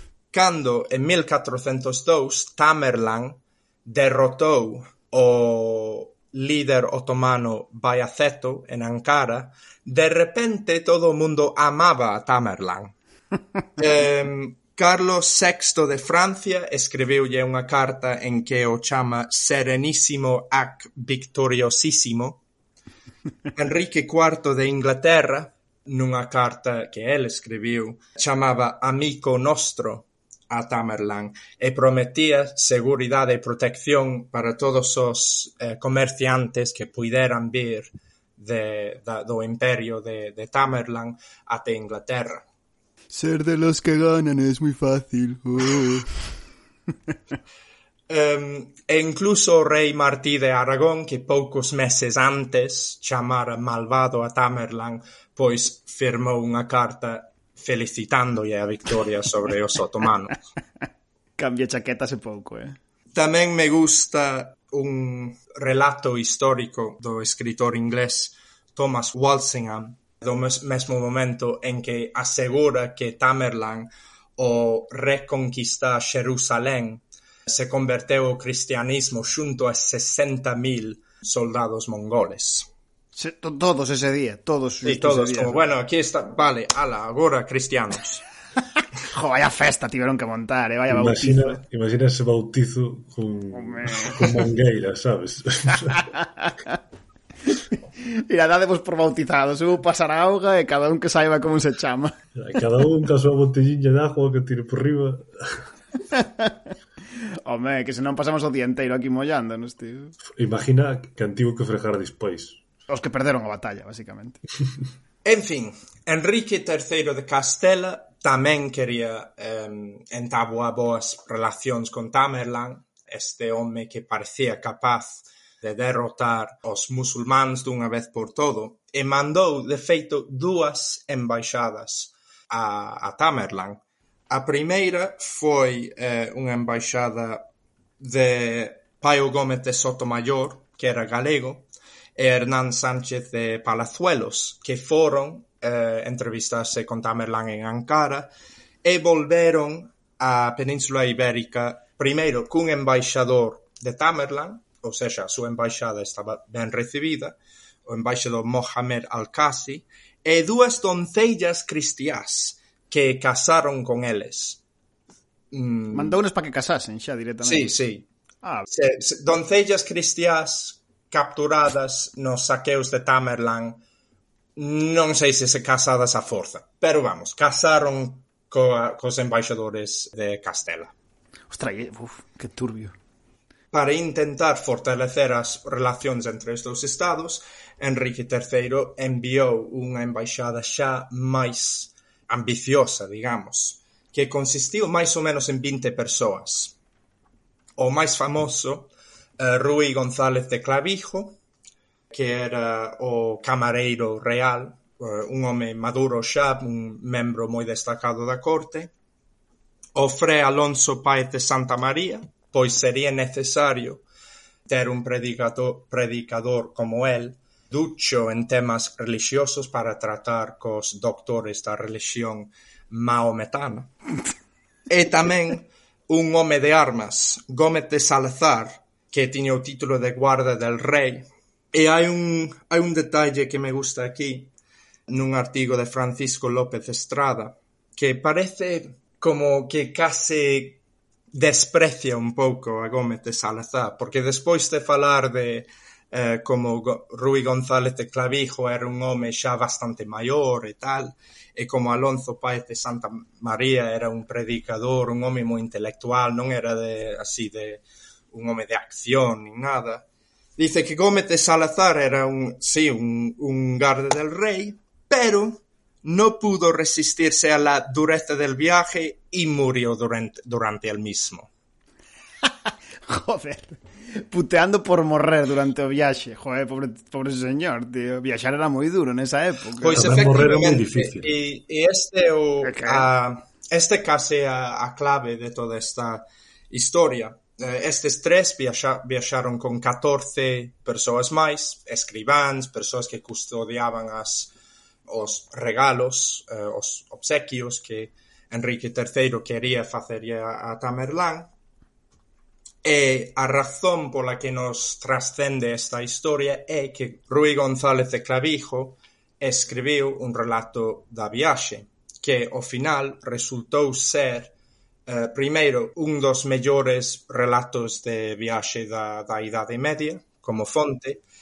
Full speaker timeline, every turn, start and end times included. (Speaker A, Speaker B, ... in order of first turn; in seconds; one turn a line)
Speaker A: 0.3-12.9
Speaker A: 13.8-22.4
Speaker A: 23.5-42.4
Speaker B: 43.1-46.1
Speaker A: 48.1-60.4
Speaker B: 61.4-62.8
Speaker A: 63.1-82.7
Speaker B: 83.2-85.6
Speaker A: 84.8-88.2
Speaker B: 89.1-91.6
Speaker C: 90.9-96.1
Speaker B: 93.5-94.4
Speaker B: 96.0-96.5
Speaker B: 98.2-102.2
Speaker C: 102.3-105.6
Speaker B: 106.1-106.5
Speaker B: 107.4-110.1
Speaker C: 110.3-112.6
Speaker B: 112.9-114.4
Speaker A: 115.2-137.5
Speaker A: 138.0-148.3
Speaker A: 148.8-164.6
Speaker A: 165.5-166.2
Speaker B: 165.9-167.7
Speaker A: 167.4-168.1
Speaker A: 168.7-173.8
Speaker A: 174.6-180.9
Speaker B: 181.5-182.9
Speaker A: 183.7-196.8
Speaker A: 197.8-201.4
Speaker A: 202.1-208.9
Speaker A: 209.9-214.0
Speaker A: 214.7-223.9
Speaker A: 224.9-234.5
Speaker A: 235.1-240.8
Speaker A: 241.3-260.1
Speaker A: 260.6-271.5
Speaker B: 273.1-280.3
Speaker A: 279.8-294.5
Speaker C: 279.9-281.3
Speaker B: 282.6-283.1
Speaker A: 295.1-301.5
Speaker A: 302.8-314.5
Speaker A: 315.1-321.2